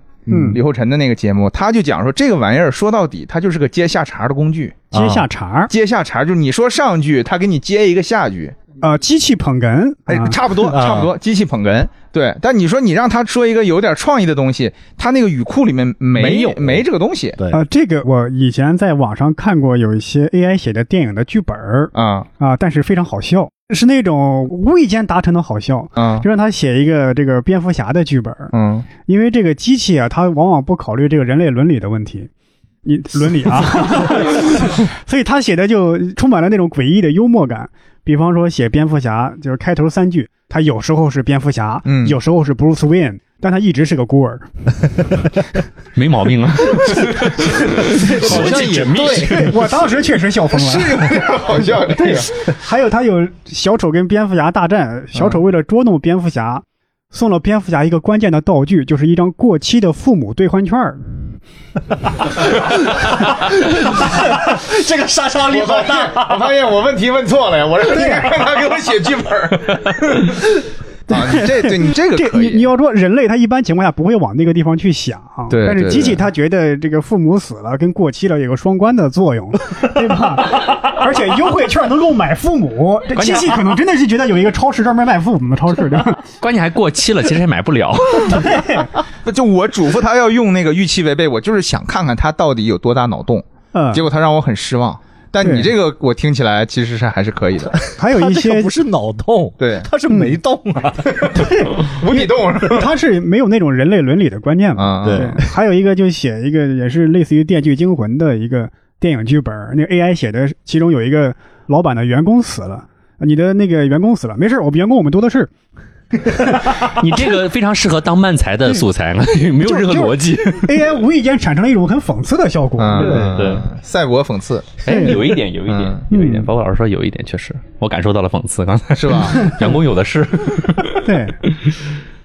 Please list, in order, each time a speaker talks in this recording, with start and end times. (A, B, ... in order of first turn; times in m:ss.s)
0:00.2-0:00.6 A
0:00.3-0:00.6 B
0:00.5-0:04.8 C
0:04.9-0:05.3 A
0:04.9-0:05.7 B
0:05.7-0:08.5 C
0:08.8-0:10.6 B
0:10.1-0:17.4 C
0:10.7-0:11.1 A
0:16.1-0:16.8 A
0:17.4-0:17.6 A
0:17.5-0:28.5 B
0:21.9-0:22.3 C
0:26.0-0:26.2 C
0:28.5-0:28.9 C
0:29.0-0:32.3 B
0:32.8-0:44.5 B
0:41.8-0:42.2 C
0:45.9-0:49.5 D
0:47.8-0:49.6 A
0:48.0-0:49.4 C
0:49.2-0:51.3 B
0:50.5-0:52.3 C
0:51.9-1:01.1 B
1:02.5-1:06.5 A
1:05.5-1:10.5 C
1:07.9-1:08.3 B
1:11.1-1:12.6 C
1:11.1-1:26.2 B
1:15.5-1:16.2 C
1:23.1-1:23.7 D
1:26.4-1:28.6 D
1:28.3-1:28.9 B
1:29.2-1:37.8 C
1:33.7-1:34.0 B
1:35.4-1:35.7 B
1:37.8-1:41.4 A
1:38.0-1:38.7 B
1:39.6-1:39.9 C
1:40.1-1:40.4 B
1:41.1-1:42.9 C
1:41.4-1:55.5 B
1:44.8-1:45.4 C
1:45.0-1:45.4 A
1:56.3-1:56.9 B
1:56.4-2:00.9 D
1:59.6-2:03.3 B
2:02.8-2:05.1 C
2:03.0-2:03.6 A
2:03.1-2:03.6 D
2:04.8-2:11.8 D
2:04.9-2:05.3 B
2:05.7-2:06.0 C
2:06.1-2:06.5 B
2:08.9-2:09.5 C
2:11.0-2:11.4 B